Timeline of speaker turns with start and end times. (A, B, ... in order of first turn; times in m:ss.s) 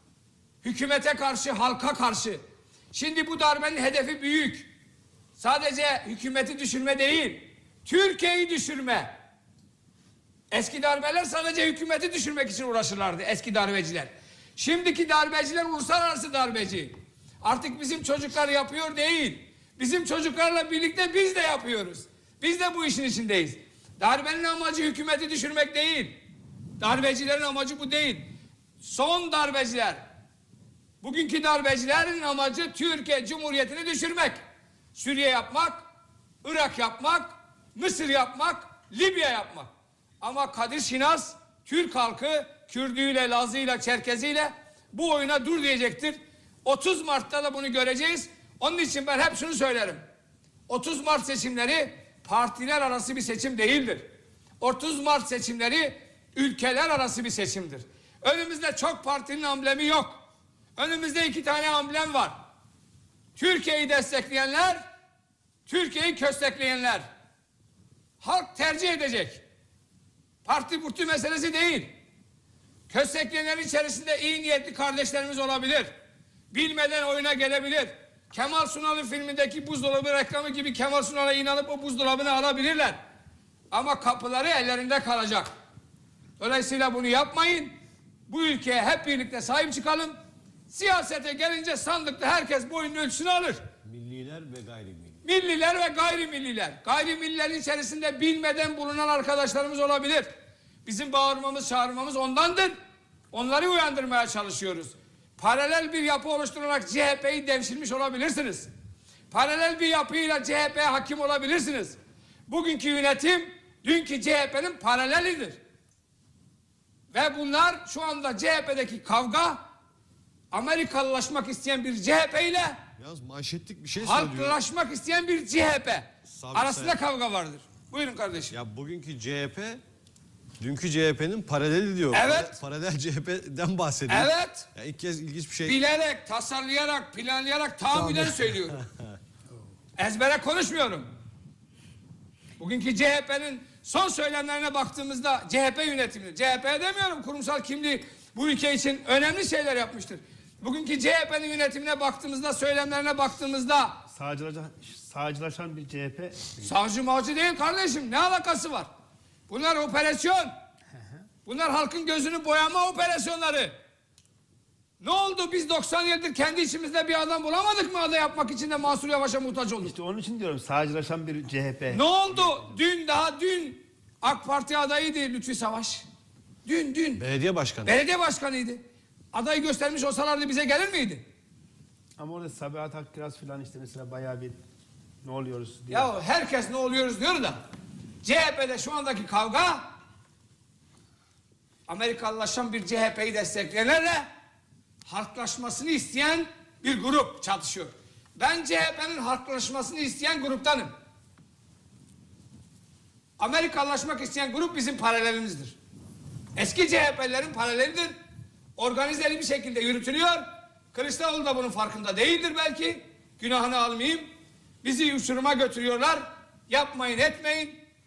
0:00.6-0:02.4 A
0:02.9-0:04.7 A
0:05.4-0:09.1 A
0:10.5-0:26.2 A
0:26.8-0:28.3 A
0:28.8-0:30.0 A
0:31.0-0:34.4 A
0:35.0-0:35.8 A
0:36.4-0:39.7 A
0:40.2-0:50.0 A
0:50.7-0:54.1 A
0:54.6-1:00.2 A
1:00.8-1:02.4 A
1:03.4-1:04.8 A
1:05.7-1:07.1 A
1:08.2-1:09.4 A
1:10.4-1:11.9 A
1:12.9-1:15.9 A
1:16.5-1:23.0 A
1:23.7-1:25.5 A
1:26.4-1:27.7 A
1:28.3-1:30.2 A
1:30.7-1:33.7 A
1:33.8-1:35.2 B
1:35.2-1:40.3 A
1:40.8-1:42.7 A
1:43.3-1:48.7 A
1:49.3-1:52.0 A
1:52.5-1:55.6 A
1:57.1-1:59.6 A
2:00.5-2:02.8 A
2:03.0-2:04.6 B
2:04.0-2:08.5 A
2:06.3-2:07.0 B
2:08.5-2:09.8 B
2:10.6-2:15.8 B
2:12.1-2:12.6 A
2:14.1-2:14.7 A
2:15.6-2:18.8 A
2:18.0-2:18.3 B
2:20.0-2:21.1 A
2:22.6-2:34.0 A
2:34.1-2:36.6 C
2:36.6-2:38.9 A
2:39.5-2:40.5 A
2:40.9-2:41.2 C
2:41.4-2:43.7 A
2:45.0-2:49.9 A
2:49.8-2:52.7 C
2:51.9-2:56.0 A
2:56.6-2:57.2 A
2:57.2-2:58.0 B
2:57.8-2:58.8 A
2:59.3-3:01.2 A
3:02.2-3:04.6 C
3:05.2-3:06.1 C
3:05.9-3:07.6 A
3:08.2-3:09.9 A
3:11.9-3:14.3 A
3:15.1-3:20.9 A
3:23.4-3:25.8 A
3:26.6-3:28.1 A
3:28.8-3:34.3 A
3:34.8-3:37.8 A